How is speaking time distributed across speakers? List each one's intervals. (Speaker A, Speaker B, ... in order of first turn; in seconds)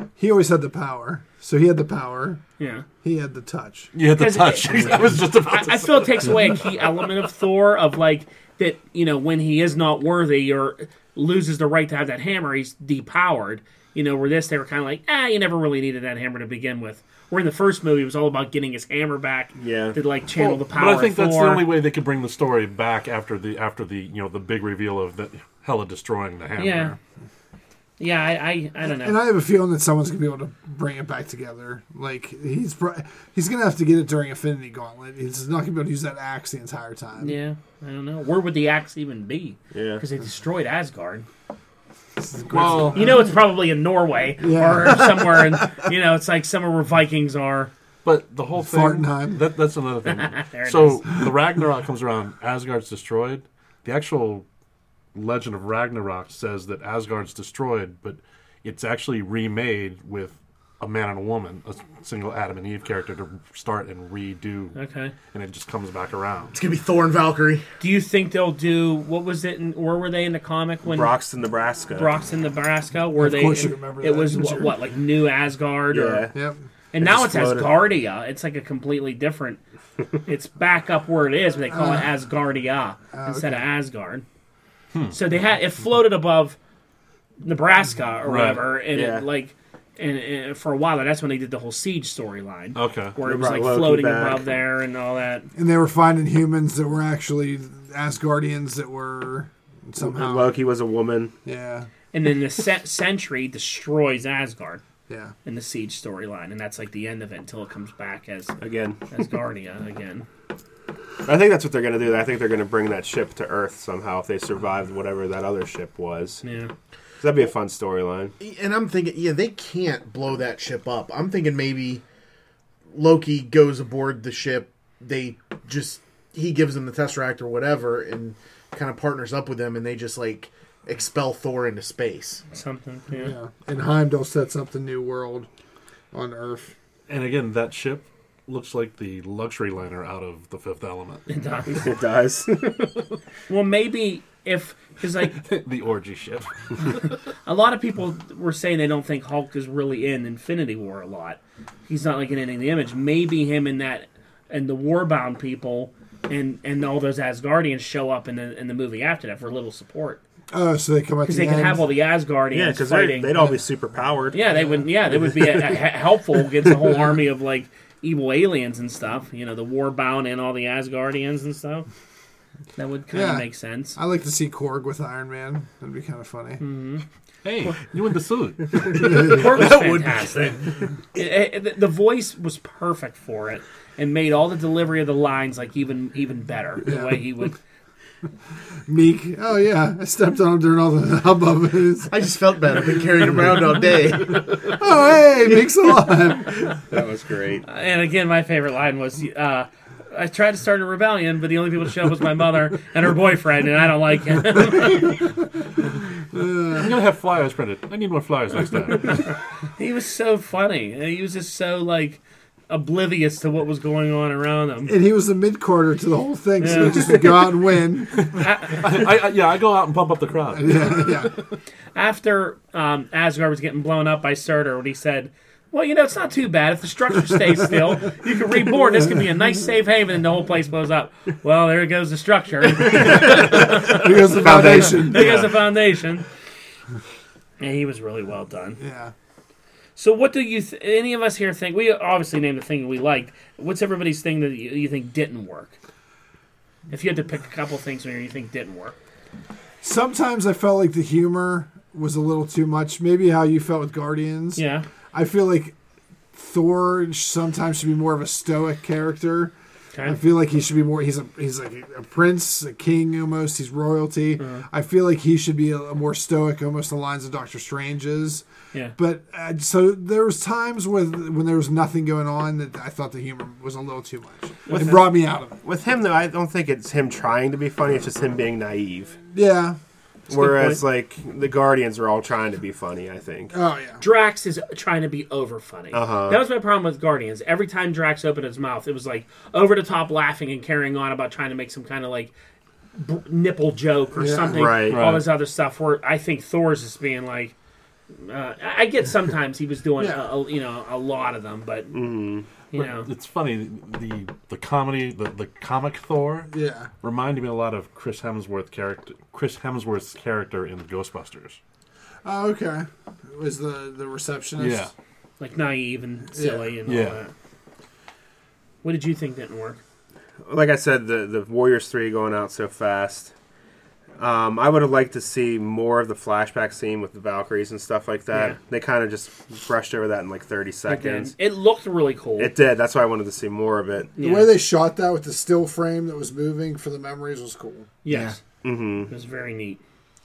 Speaker A: 0.2-2.4, 3.0-3.9, 29.0-37.4, 42.2-43.3, 44.4-45.6, 48.6-49.4, 73.2-74.7, 81.7-82.1, 83.1-83.6, 95.5-100.5, 101.4-101.9, 105.1-105.3, 133.1-135.5, 136.1-136.7, 160.5-161.8, 173.1-176.6, 178.9-179.4, 186.8-187.2, 188.9-192.1, 194.5-196.7, 206.3-206.9, 214.9-218.3, 220.5-221.3, 232.9-235.5, 238.8-239.1, 249.8-255.8, 256.3-268.4, 269.0-275.6, 279.3-279.8, 283.5-284.0, 294.1-294.7, 300.0-300.2, 306.5-306.9, 312.2-314.9, 316.3-316.8, 334.2-337.9
Speaker B: 2.6-2.9, 4.1-21.7, 26.6-26.9, 28.0-29.2, 37.2-41.3, 42.5-47.7, 50.1-51.1, 64.7-65.1, 67.8-71.1, 71.9-76.3, 76.9-79.6, 80.2-84.2, 85.1-86.6, 87.4-95.5, 102.1-104.8, 105.4-108.6, 109.1-110.3, 116.4-116.7, 132.5-133.3, 141.3-141.9, 143.5-145.4, 147.4-160.2, 161.2-163.3, 164.3-171.9, 172.8-174.0, 176.6-177.0, 178.9-187.6, 197.7-205.2, 209.8-214.9, 216.6-217.2, 218.4-218.9, 221.9-236.2, 237.6-238.8, 239.9-245.8, 246.9-248.9, 254.6-254.9, 264.4-264.6, 274.7-275.1, 280.3-280.8, 284.0-292.3, 292.9-297.5, 298.1-302.0, 302.7-303.1, 315.4-317.3, 318.8-319.8, 328.3-328.6, 330.9-332.5, 334.2-334.5, 338.0-338.4, 339.1-339.8
Speaker C: 3.9-6.5, 20.4-27.0, 42.5-43.2, 48.0-54.4, 55.1-64.8, 65.3-66.5, 88.2-88.7, 92.7-93.2, 137.1-141.3, 145.3-147.0, 177.4-179.7, 206.7-209.2, 218.2-221.3, 235.1-235.5, 294.9-295.3, 302.8-306.5, 307.0-311.6, 314.6-314.9, 316.9-317.2
Speaker D: 19.6-20.0, 39.7-40.0, 70.8-72.1, 75.9-76.3, 77.0-77.8, 88.9-89.2, 93.2-94.5, 100.0-101.3, 108.6-109.1, 111.2-116.4, 117.2-118.3, 141.7-142.9, 162.5-164.4, 196.8-197.6, 234.3-235.3, 274.7-275.1, 275.6-279.2, 280.3-283.5, 285.9-286.4, 294.5-295.1, 301.9-302.5, 320.4-323.3, 324.2-331.3, 332.4-334.2, 338.6-339.1
Speaker E: 66.5-67.6, 118.4-122.0, 122.9-132.4, 179.4-180.5, 192.1-194.8, 338.1-338.4